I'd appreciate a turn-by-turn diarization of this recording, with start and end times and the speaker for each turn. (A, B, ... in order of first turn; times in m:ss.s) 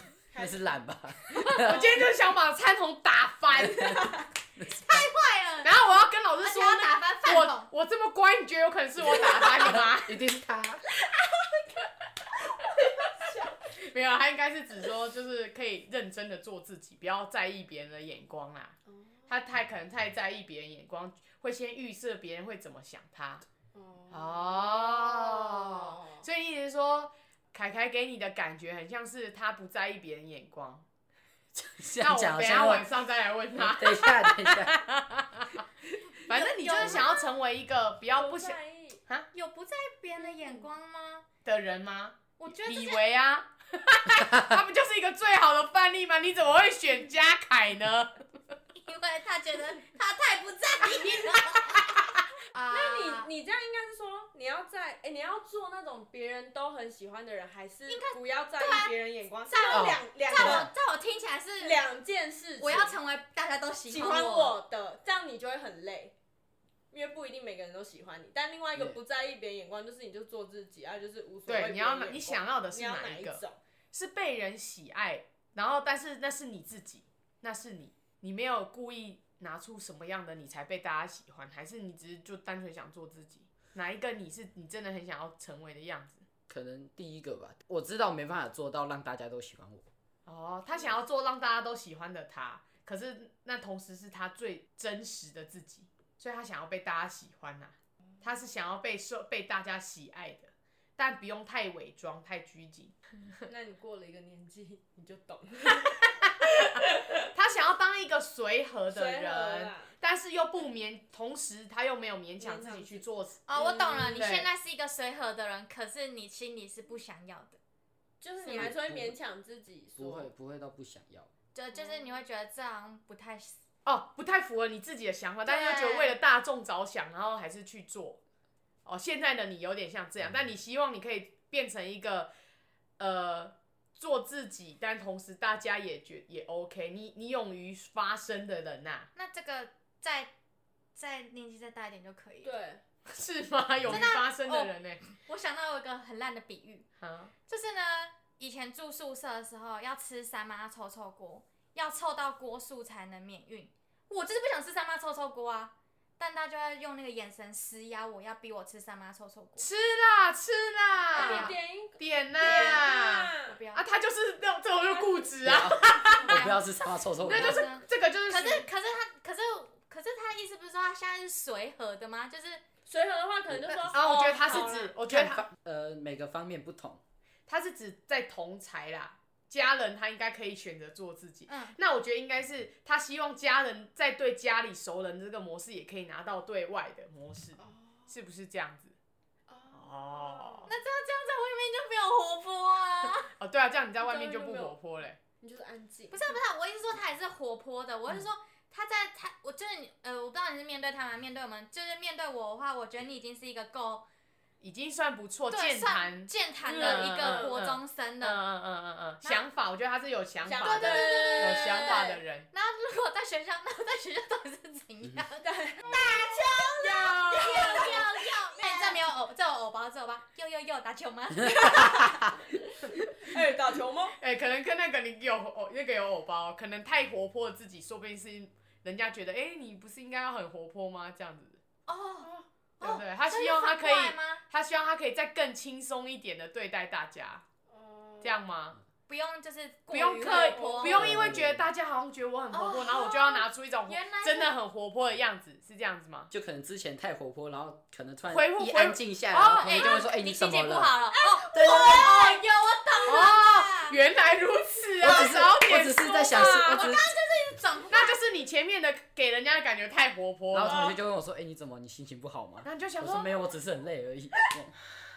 0:00.3-0:00.8 A
0:00.4-0:02.0 B
0:01.6-0:04.1 C
0:01.6-0:02.1 A
0:03.7-0:05.0 B
0:03.8-0:04.2 A
0:04.8-0:05.7 D
0:05.6-0:10.2 C
0:06.4-0:07.7 D
0:09.3-0:10.8 B
0:13.7-0:18.8 C
0:18.9-0:19.2 A
0:19.3-0:23.4 C
0:23.7-0:26.2 A
0:24.1-0:30.8 C
0:31.5-0:32.9 B
0:32.0-0:35.6 C
0:33.6-0:34.8 B
0:36.3-0:37.3 D
0:36.3-0:39.3 C
0:38.1-0:39.0 A
0:39.3-0:41.3 D
0:40.2-0:40.6 A
0:41.4-0:48.1 C
0:42.4-0:43.0 D
0:48.8-0:53.3 D
0:52.7-1:00.7 A
0:57.9-0:58.9 D
0:59.5-1:01.8 D
0:59.7-1:00.7 B
1:01.6-1:03.0 A
1:02.6-1:04.6 D
1:03.9-1:06.1 A
1:06.9-1:13.6 A
1:11.5-1:26.2 C
1:26.5-1:29.9 B
1:30.3-1:43.0 C
1:43.4-1:47.2 A
1:47.2-1:53.4 C
1:48.9-1:49.9 A
1:52.4-1:54.3 A
1:53.5-1:57.6 D
1:54.2-1:54.5 C
1:58.2-2:00.3 A
1:58.5-1:59.2 B
2:00.0-2:01.3 B
2:01.5-2:03.6 D
2:01.7-2:02.1 A
2:03.8-2:08.2 C
2:05.4-2:06.2 D
2:08.8-2:12.3 C
2:13.0-2:19.1 C
2:19.2-2:20.3 D
2:21.0-2:22.5 D
2:22.4-2:22.8 A
2:23.1-2:25.0 C
2:23.9-2:26.9 D
2:27.0-2:27.3 C
2:27.5-2:39.7 D
2:39.6-2:46.5 C
2:41.1-2:41.5 D
2:41.1-2:43.6 A
2:42.4-2:42.9 D
2:43.5-2:43.8 D
2:44.9-2:45.3 A
2:45.4-2:47.6 B
2:46.2-2:52.6 D
2:47.2-2:48.7 C
2:52.9-2:55.0 A
2:53.5-2:53.8 B
2:53.9-2:55.5 C
2:54.5-2:57.0 B
2:57.5-3:09.0 C
3:01.5-3:01.8 D
3:07.6-3:08.1 A
3:09.5-3:10.7 A
3:09.7-3:10.7 C
3:10.7-3:13.3 D
3:13.3-3:15.2 C
3:14.0-3:14.8 A
3:15.4-3:16.3 A
3:16.1-3:24.0 D
3:24.6-3:32.5 C
3:25.5-3:28.4 D
3:26.6-3:27.5 A
3:30.4-3:32.2 A
3:30.6-3:42.1 D
3:35.4-3:35.9 A
3:36.8-3:39.0 A
3:36.9-3:38.0 C
3:41.5-3:42.3 A
3:43.2-3:44.2 A
3:44.2-3:51.6 C
3:51.9-3:54.4 D
3:52.8-3:57.4 C
3:57.7-3:58.4 A
3:58.2-3:58.8 C
3:59.1-4:01.3 D
3:59.9-4:06.3 C
4:00.2-4:01.1 A
4:00.9-4:01.7 B
4:02.5-4:04.5 D
4:06.3-4:12.1 B
4:08.3-4:10.1 C
4:09.4-4:14.0 D
4:11.6-4:12.1 A
4:11.8-4:12.1 C
4:13.1-4:16.9 C
4:15.0-4:17.1 B
4:16.0-4:18.2 D
4:17.9-4:21.0 C
4:20.5-4:24.8 B
4:20.6-4:21.0 A
4:22.6-4:23.4 C